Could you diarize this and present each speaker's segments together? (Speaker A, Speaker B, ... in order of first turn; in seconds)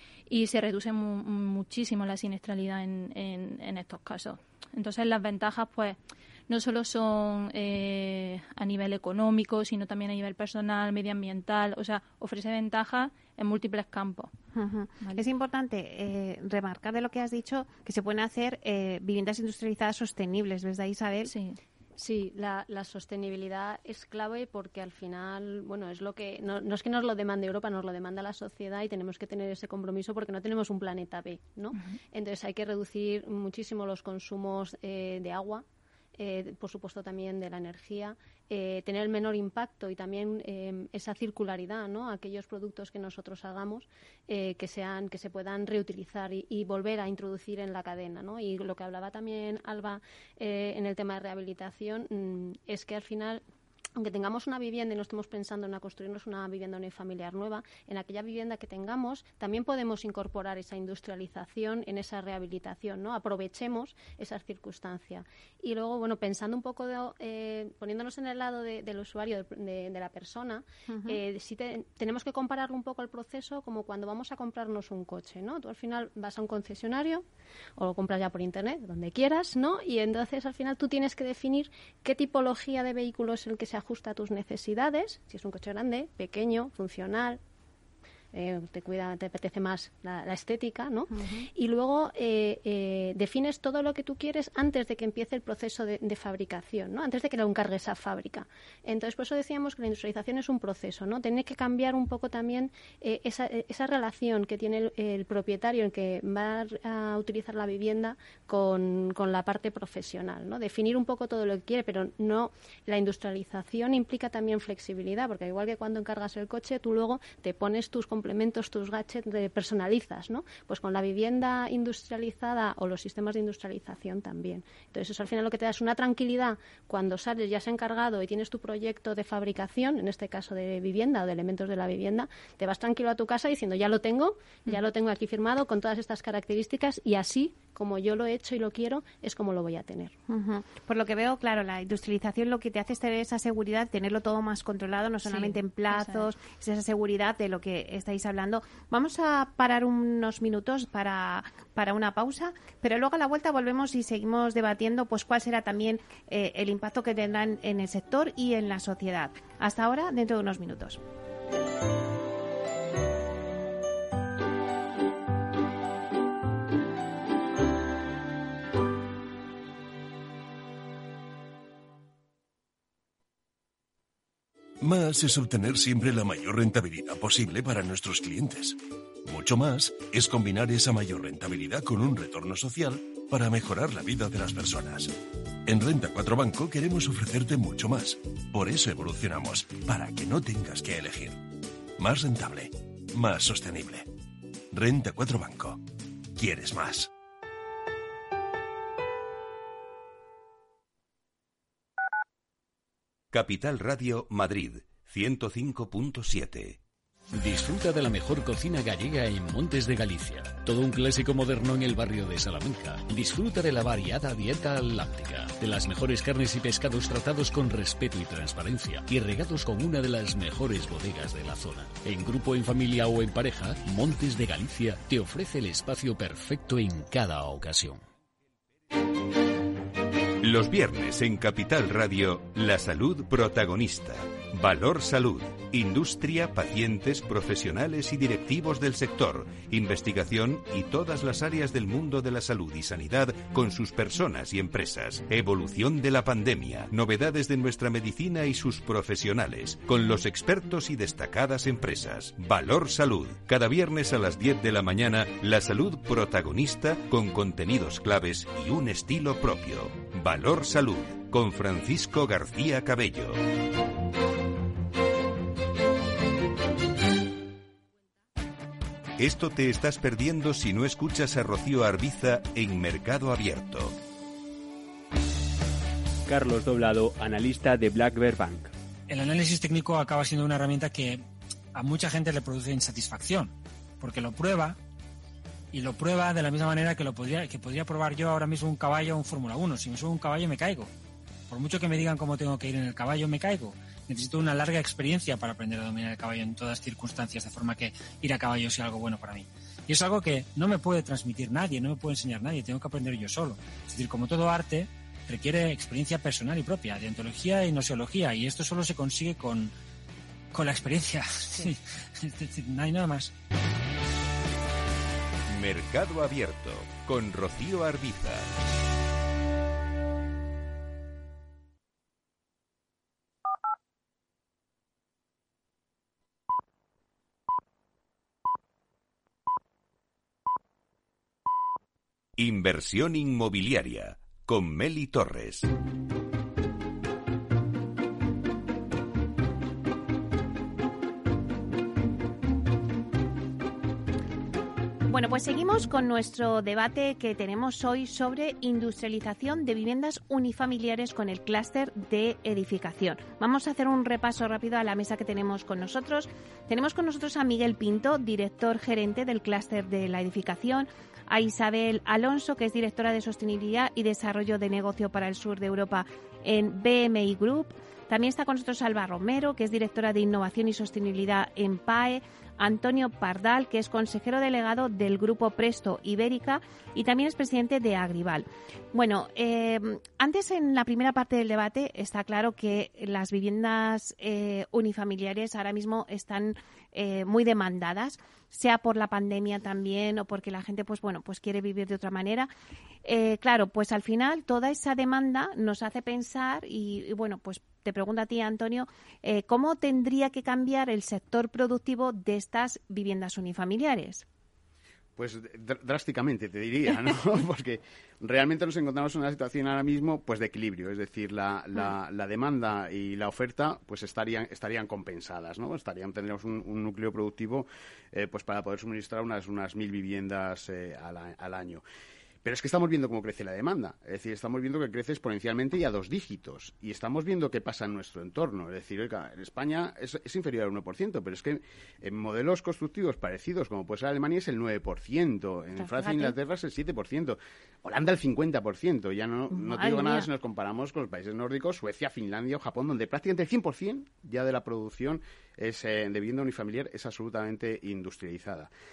Speaker A: 0.3-6.0, 6.5-14.3, 21.2-21.6, 145.2-146.3
Speaker B: 14.5-21.3, 70.9-71.2, 91.1-91.5, 140.3-161.0, 345.1-392.5, 393.0-404.2, 435.8-436.3, 439.5-440.3
Speaker C: 22.0-35.6, 36.2-53.4, 54.0-77.2, 77.8-87.4, 88.3-140.1
Speaker D: 174.8-191.4, 192.0-194.1, 194.7-195.8, 196.3-197.1
Speaker E: 203.3-206.8, 230.4-263.4, 269.2-273.9, 315.5-318.5, 332.4-335.7
Speaker F: 207.3-228.0
Speaker G: 276.2-278.7
Speaker H: 279.1-281.2, 281.7-284.8, 285.7-290.9, 291.5-309.7, 310.5-313.3
Speaker I: 405.1-421.8, 422.4-448.7